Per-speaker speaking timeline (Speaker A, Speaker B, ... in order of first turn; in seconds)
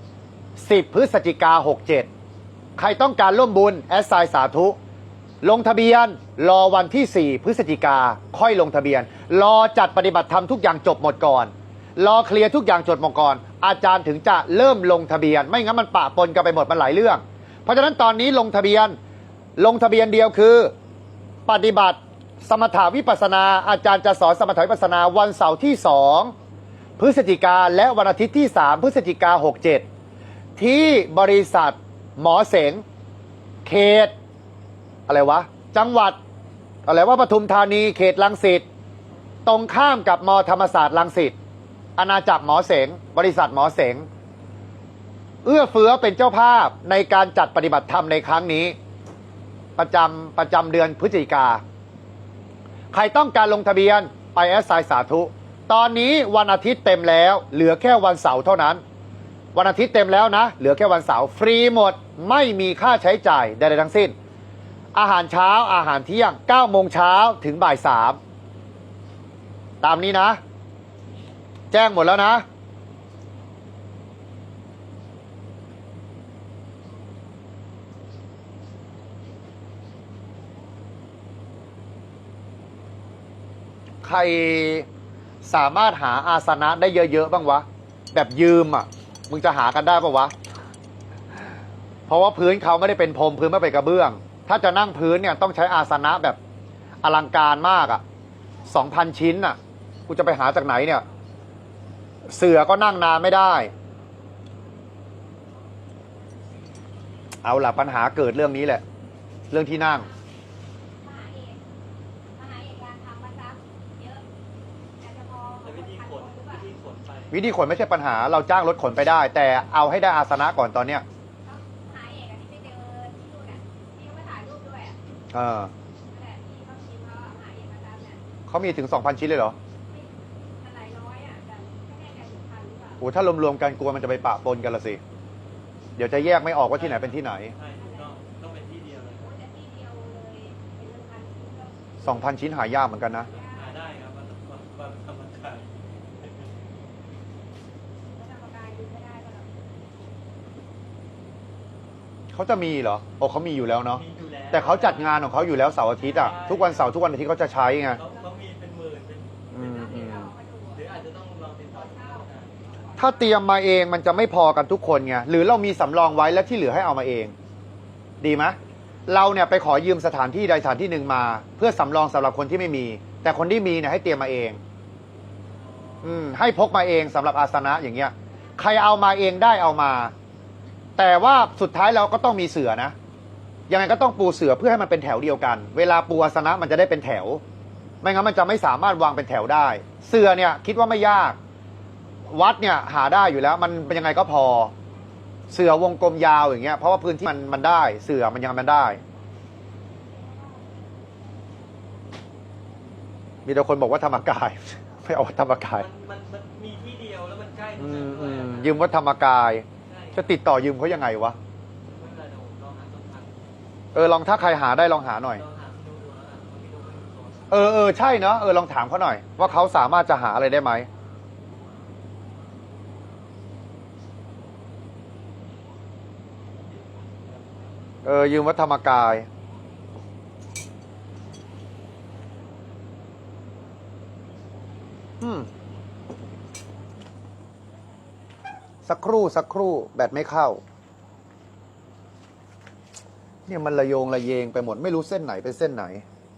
Speaker A: 0.6-2.1, 2.8-4.8, 5.4-18.9, 19.6-20.7, 21.5-26.3, 27.0-29.8, 30.6-32.8, 33.6-34.1, 35.1-36.2, 36.9-38.6, 39.5-41.4, 42.0-44.0, 45.4-48.7, 49.8-51.6, 52.9-58.8, 59.5-64.1, 64.9-68.2, 69.8-70.4, 71.7-72.4, 84.0-84.8, 85.4-90.3, 92.1-96.4, 97.0-98.0, 98.7-99.5, 100.1-101.0, 102.3-103.7, 107.4-108.8, 109.5-110.1, 117.3-121.0, 125.3-125.7, 128.5-129.6, 133.0-135.0, 136.0-137.5, 142.0-143.3, 152.3-158.0, 159.5-160.3, 162.9-167.3, 168.2-168.6, 169.1-174.6, 176.0-180.1, 181.0-182.9, 183.7-187.4, 188.0-191.4, 192.3-194.7, 195.5-199.0, 203.4-205.8, 207.8-211.3, 213.9-215.4, 217.5-220.9, 228.0-229.2, 235.2-235.5, 238.8-240.6, 243.5-246.0
Speaker B: 111.0-111.6, 112.4-114.2, 115.0-116.4, 121.5-124.9, 126.1-128.1, 130.6-133.0, 139.2-141.7, 143.3-143.6, 148.1-149.5, 159.7-160.8, 162.8-163.1
Speaker C: 115.6-117.3, 136.7-139.3, 143.4-146.6, 153.9-155.3, 156.0-156.9, 157.9-159.7, 160.7-162.8, 205.7-208.8, 209.8-210.3, 211.9-213.5, 215.3-217.6